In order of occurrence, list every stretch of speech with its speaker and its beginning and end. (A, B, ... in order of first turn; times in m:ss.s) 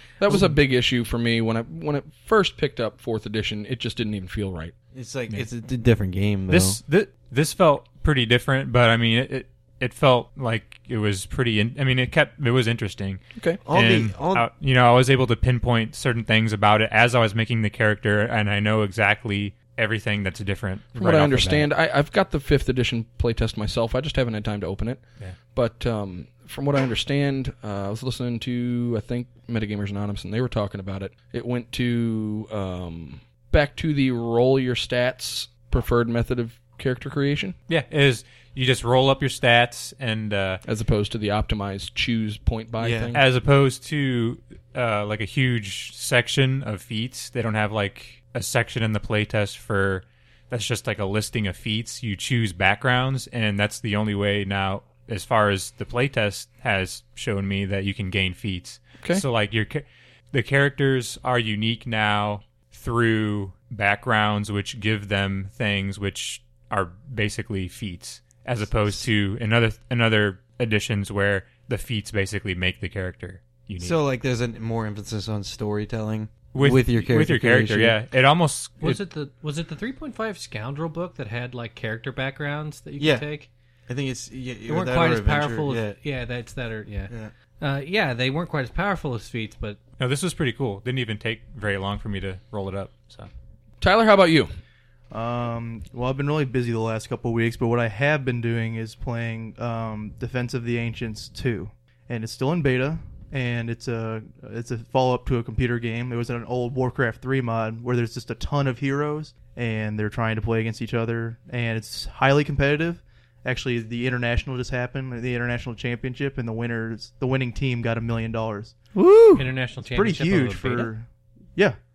0:00.2-0:04.7 A
0:04.9-0:06.8 B
0:06.5-0:21.7 C
0:13.6-0:14.5 B
0:21.0-0:25.0 A
0:25.5-0:37.6 A
0:37.7-0:40.6 C
0:40.6-0:43.2 A
0:42.8-0:43.2 B
0:43.1-1:14.0 C
1:13.8-1:18.0 B
1:16.5-1:19.0 C
1:18.8-1:23.5 D
1:23.0-1:23.2 B
1:23.9-1:26.0 B
1:24.7-1:29.8 D
1:30.0-1:33.3 C
1:33.8-1:34.5 A
1:35.1-1:58.8 E
1:59.0-1:59.5 B
1:59.4-2:00.9 D
1:59.8-2:01.8 E